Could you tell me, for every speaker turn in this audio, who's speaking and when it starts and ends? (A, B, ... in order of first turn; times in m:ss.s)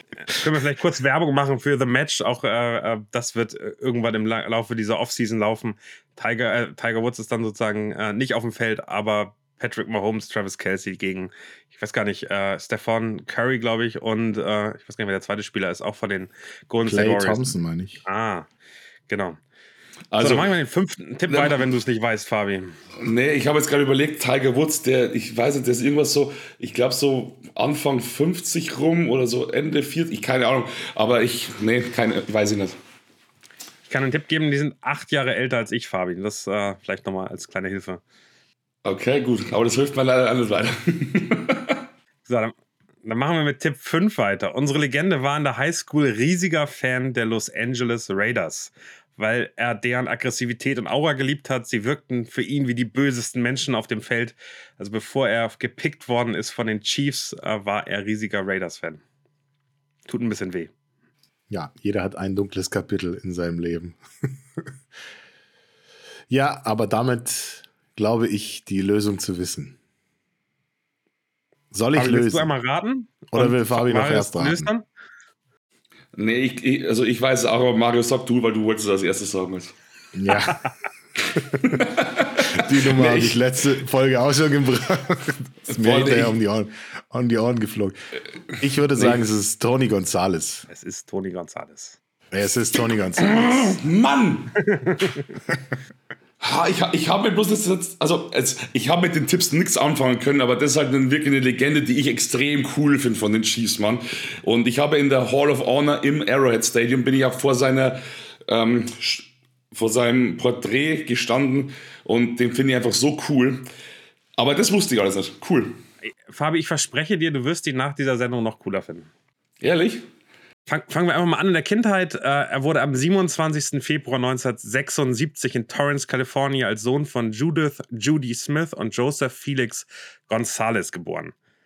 0:00.3-0:17.5 A
0:16.8-0:18.0 B
0:18.0-0:18.5 A
0:19.1-0:19.4 A
0:20.1-0:20.5 C
0:20.2-0:22.8 A
0:21.3-0:21.6 C
0:23.0-0:32.8 C
0:33.9-0:38.0 A
0:38.8-0:41.8 C
0:42.3-0:42.5 A
0:43.0-0:59.0 A
1:00.1-1:00.7 A
1:01.5-1:04.0 B
1:06.3-1:09.8 B
1:11.7-1:12.5 B
1:11.9-1:14.8 A
1:13.3-1:14.7 B
1:16.1-1:19.7 C
1:20.1-1:20.6 B
1:21.4-1:28.0 B
1:21.6-1:23.4 C
1:25.7-1:26.3 C
1:28.6-1:30.7 B
1:29.0-1:29.2 C
1:30.7-1:32.0 A
1:32.3-1:33.8 B
1:33.2-1:34.6 C
1:34.7-1:35.2 A
1:36.4-1:53.6 C
1:54.4-1:55.8 C
1:56.3-1:59.1 A
1:59.6-2:00.0 C
2:00.7-2:11.3 A